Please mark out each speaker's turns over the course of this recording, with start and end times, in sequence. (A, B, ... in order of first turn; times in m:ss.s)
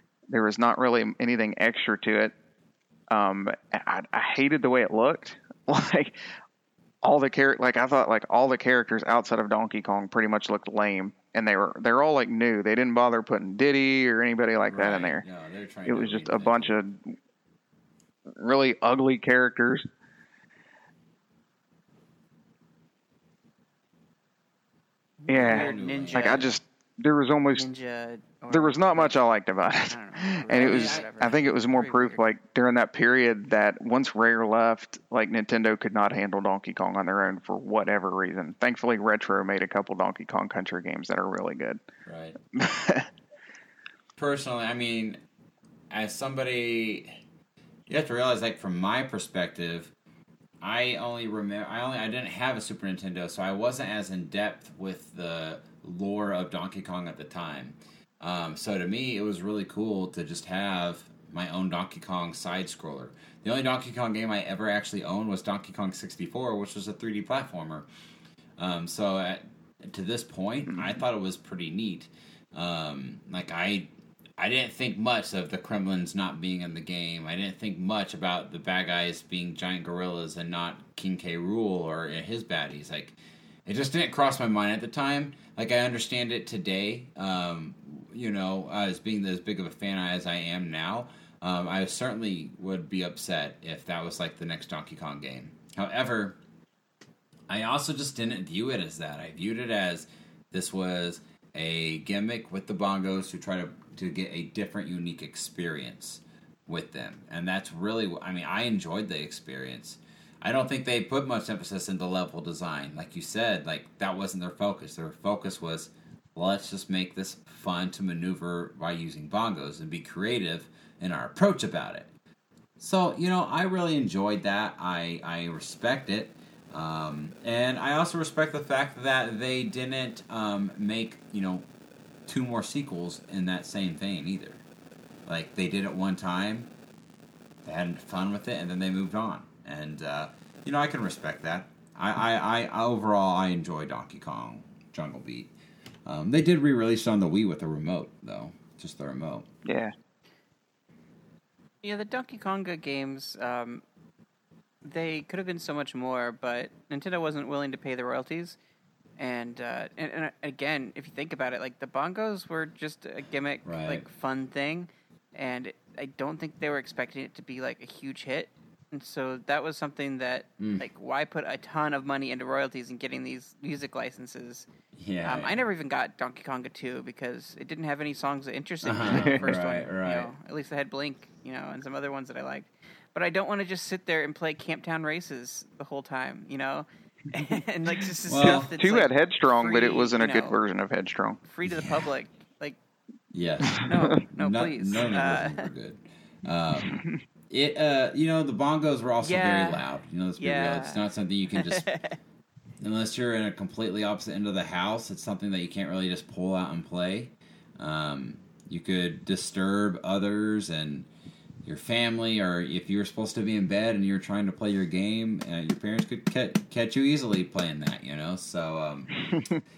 0:00.3-0:02.3 A
0:03.1-0:06.2 A
0:07.0-0:15.2 A
0:14.7-0:16.8 B
0:15.9-0:17.2 A
0:18.4-0:19.9 A
0:25.2-0:26.6 C
0:25.3-0:27.7 A
0:25.3-0:26.5 B
0:27.6-0:29.2 C
0:28.5-0:41.8 A
0:29.9-0:32.2 C
0:30.6-0:31.1 B
0:42.0-0:42.4 B
0:42.5-0:43.1 A
0:44.2-0:45.2 B
0:45.9-0:47.2 B
0:47.9-0:49.9 B
0:50.6-1:07.9 B
1:08.6-1:36.4 B
1:37.5-2:02.1 B
2:02.8-2:11.7 B
2:12.3-2:14.6 B
2:15.3-2:16.7 B
2:17.6-2:25.5 B
2:26.0-2:29.5 B
2:29.6-2:29.9 A
2:31.8-2:33.8 C
2:34.8-2:38.6 C
2:39.2-2:54.7 C
2:43.6-2:44.0 B
2:50.6-2:50.8 B
2:55.0-2:55.6 B
2:55.2-3:10.6 C
2:58.8-3:00.3 B
2:59.1-2:59.5 A
3:08.3-3:08.7 B
3:08.3-3:11.4 A
3:11.4-3:12.8 C
3:11.6-3:12.1 B
3:13.3-3:21.9 B
3:13.7-3:14.0 A
3:13.9-3:15.7 C
3:16.7-3:17.2 A
3:19.2-3:19.8 C
3:20.4-3:22.2 C
3:22.8-3:31.1 B
3:31.6-3:39.2 B